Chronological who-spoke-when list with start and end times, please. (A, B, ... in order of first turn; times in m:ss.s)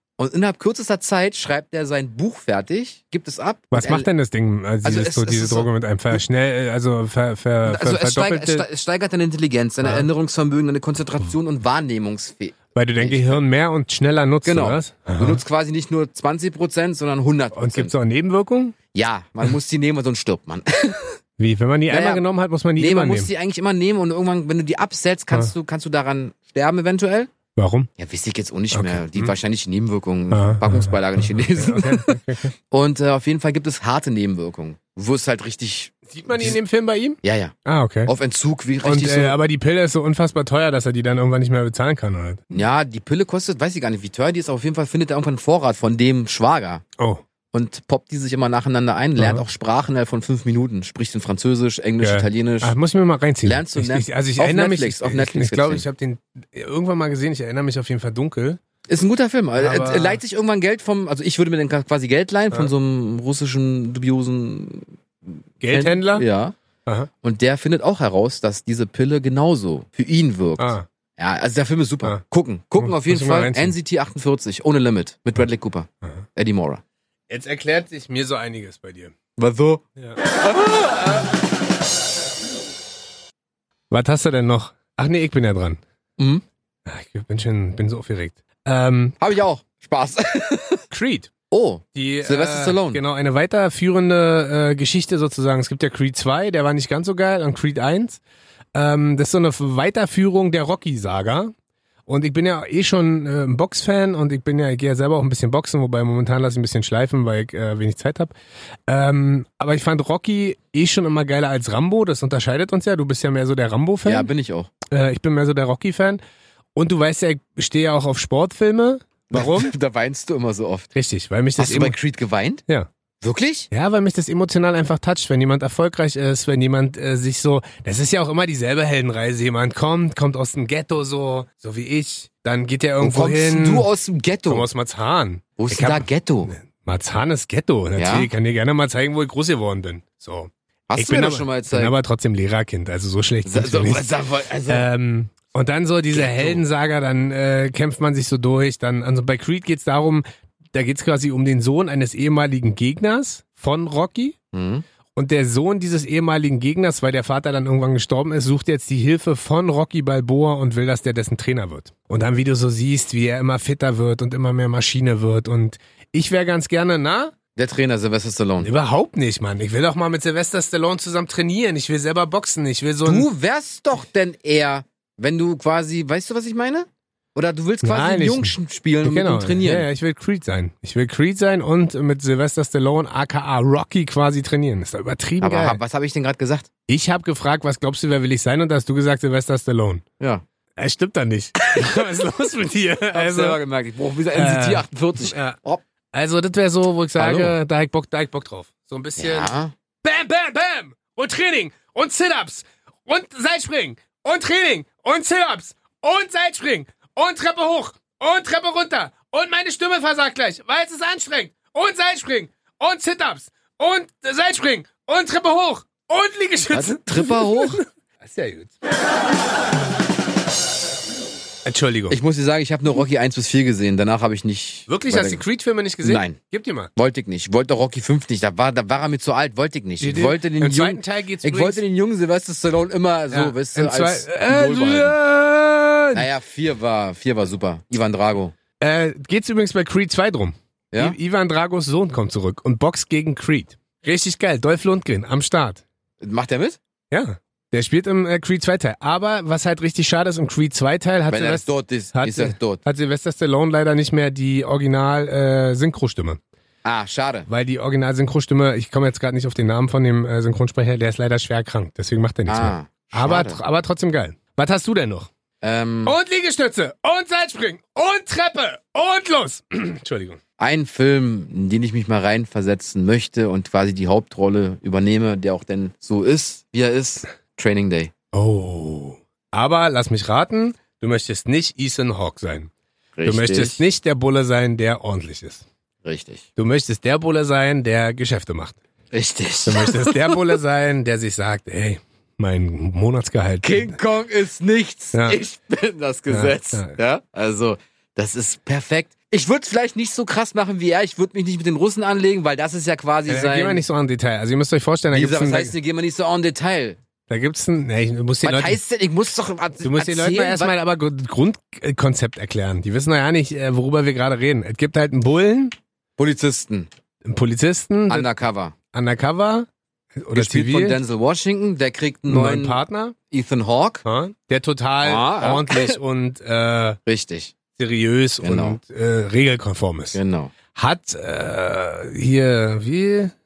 0:00.2-0:04.1 A
0:03.7-0:08.6 B
0:04.8-0:06.2 A
0:07.6-0:13.4 A
0:09.8-0:10.1 B
0:12.7-0:15.4 B
0:14.4-0:17.9 A
0:17.5-0:18.8 B
0:18.9-0:21.2 A
0:21.4-0:23.3 B
0:21.9-0:22.2 A
0:22.8-0:27.3 A
0:27.5-0:27.9 B
0:28.0-0:32.2 A
0:28.7-0:29.3 B
0:30.3-0:32.5 B
0:32.7-0:36.6 A
0:36.1-0:38.1 B
0:37.2-0:37.5 A
0:38.1-0:39.4 A
0:38.8-0:42.6 B
0:42.5-0:46.8 A
0:47.0-0:47.2 B
0:47.5-0:52.7 A
0:49.2-0:49.4 B
0:52.0-0:58.6 B
0:53.4-0:55.8 A
0:58.9-1:06.5 A
0:59.6-1:00.2 B
1:05.6-1:06.2 B
1:07.2-1:16.8 A
1:10.6-1:10.8 B
1:12.8-1:13.7 B
1:17.3-1:19.1 B
1:19.4-1:21.3 A
1:23.9-1:25.8 B
1:26.2-1:26.4 A
1:26.8-1:29.2 B
1:29.2-1:30.8 A
1:30.9-1:31.3 B
1:31.5-1:33.0 A
1:31.9-1:38.2 B
1:38.7-1:41.5 B
1:42.1-1:48.3 B
1:48.9-1:54.3 B
1:54.0-1:54.7 A
1:54.9-1:56.2 B
1:56.8-1:59.7 B
1:59.3-2:00.9 A
2:00.9-2:02.0 B
2:01.6-2:02.6 A
2:03.2-2:03.7 A
2:03.7-2:13.9 B
2:13.0-2:14.7 A
2:14.5-2:24.0 B
2:15.6-2:16.5 A
2:18.0-2:18.3 A
2:20.9-2:21.9 A
2:23.4-2:24.9 A
2:24.7-2:34.4 B
2:26.1-2:26.6 A
2:34.5-2:34.8 A
2:35.1-2:47.3 B
2:47.6-2:48.7 A
2:48.6-2:53.3 B
2:53.0-2:59.9 A
2:57.8-3:05.8 B
3:05.4-3:06.7 A
3:06.9-3:10.0 B
3:10.8-3:13.6 B
3:11.7-3:12.1 A
3:13.1-3:15.8 A
3:14.3-3:15.6 B
3:16.1-3:38.7 B
3:17.2-3:17.5 A
3:19.2-3:19.7 A
3:36.7-3:37.8 A
3:41.6-3:42.2 B
3:42.1-3:45.4 A
3:44.9-3:46.9 B
3:46.0-3:46.4 A
3:47.0-3:55.1 A
3:50.0-3:51.8 B
3:53.3-3:56.3 B
3:56.1-3:58.5 A
3:58.8-4:05.8 B
4:06.2-4:06.8 A
4:07.1-4:16.4 B
4:11.3-4:12.8 A
4:16.8-4:17.5 A
4:17.5-4:25.3 B
4:22.5-4:23.6 A
4:25.6-4:26.1 A
4:26.0-4:30.4 B
4:30.6-4:38.1 A
4:38.3-4:42.7 B
4:43.2-4:43.8 A
4:43.2-4:45.6 B
4:46.0-4:46.4 A
4:46.6-4:48.8 B
4:49.1-4:50.5 A
4:49.6-4:54.0 B
4:53.6-5:03.8 A
4:55.1-4:55.4 B
4:56.3-4:57.0 B
5:03.3-5:05.7 B
5:05.1-5:07.0 A
5:07.3-5:08.8 B
5:08.4-5:10.7 A
5:09.8-5:15.7 B
5:16.2-5:16.9 A
5:17.2-5:18.3 B
5:18.1-5:18.7 A
5:18.9-5:21.0 B
5:20.3-5:22.8 A
5:22.3-5:23.1 B
5:23.3-5:24.0 A
5:24.0-5:27.0 B
5:25.0-5:26.0 A
5:27.1-5:27.5 A
5:27.8-5:30.2 B
5:28.4-5:28.8 A
5:30.1-5:30.5 A
5:30.7-5:33.3 B